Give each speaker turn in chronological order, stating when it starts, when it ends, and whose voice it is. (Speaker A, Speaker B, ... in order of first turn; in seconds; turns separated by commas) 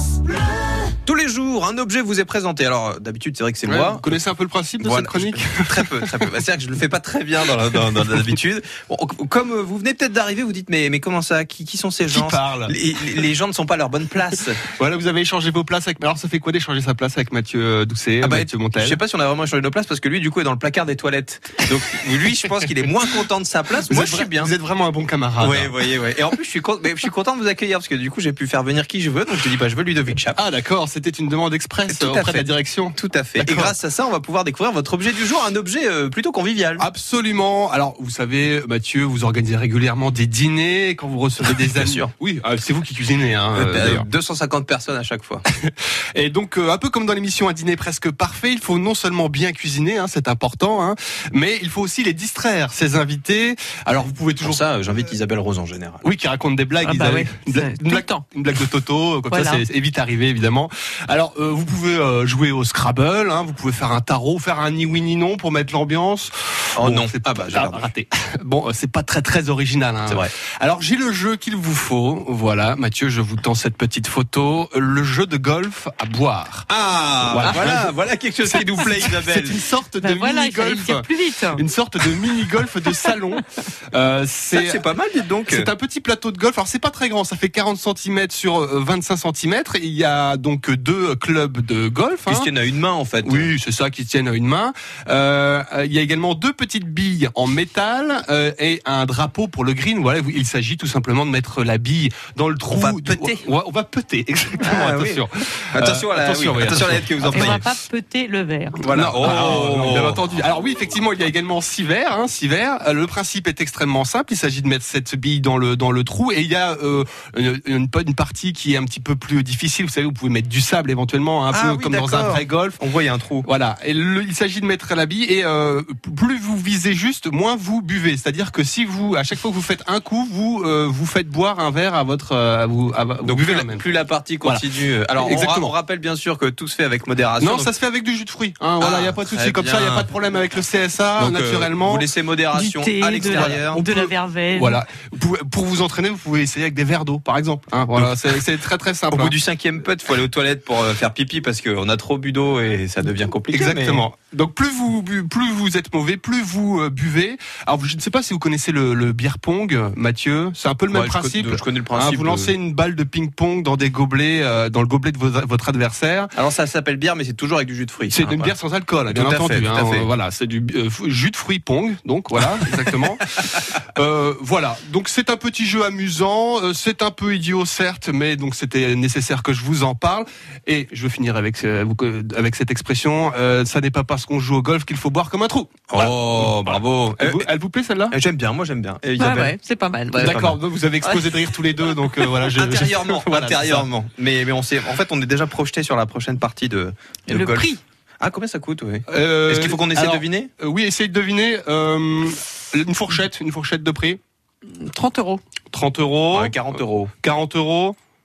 Speaker A: 0.8-4.2, Speaker B: 3.6-6.4, Speaker A: 4.8-14.6, Speaker B: 12.1-12.8, Speaker B: 14.8-19.0, Speaker A: 18.2-24.5, Speaker B: 23.9-25.8, Speaker A: 25.4-30.4, Speaker B: 30.3-33.8, Speaker A: 31.9-36.9, Speaker B: 36.8-44.1, Speaker A: 41.4-42.1, Speaker A: 43.5-45.4, Speaker B: 45.5-54.6, Speaker A: 54.4-56.0, Speaker B: 56.0-76.7, Speaker C: 56.8-58.2, Speaker C: 59.3-59.6, Speaker A: 66.8-67.9, Speaker A: 76.7-79.6, Speaker B: 77.2-84.8, Speaker C: 80.0-81.7, Speaker A: 84.5-85.7, Speaker B: 85.5-92.5, Speaker A: 92.3-93.5, Speaker B: 93.2-107.6, Speaker A: 102.7-103.5, Speaker A: 104.6-107.7, Speaker C: 107.3-108.8, Speaker A: 108.8-110.2, Speaker B: 108.9-122.8, Speaker A: 121.5-123.5, Speaker B: 123.4-133.9, Speaker A: 133.3-137.7, Speaker B: 134.4-135.7, Speaker B: 137.4-142.1, Speaker A: 138.8-140.1, Speaker A: 141.2-143.8, Speaker C: 142.5-144.8, Speaker B: 143.8-149.4, Speaker A: 147.9-148.4, Speaker A: 149.1-154.1, Speaker B: 153.5-166.3, Speaker A: 160.9-162.5, Speaker A: 166.3-168.6, Speaker B: 168.1-188.2, Speaker A: 169.1-170.1, Speaker A: 185.9-187.5, Speaker A: 188.1-189.5, Speaker C: 189.2-191.4, Speaker B: 190.2-193.9, Speaker A: 190.2-190.6, Speaker A: 192.5-200.5, Speaker C: 197.3-197.8, Speaker B: 199.1-204.2, Speaker C: 204.7-205.4, Speaker B: 205.7-208.0, Speaker A: 206.3-207.1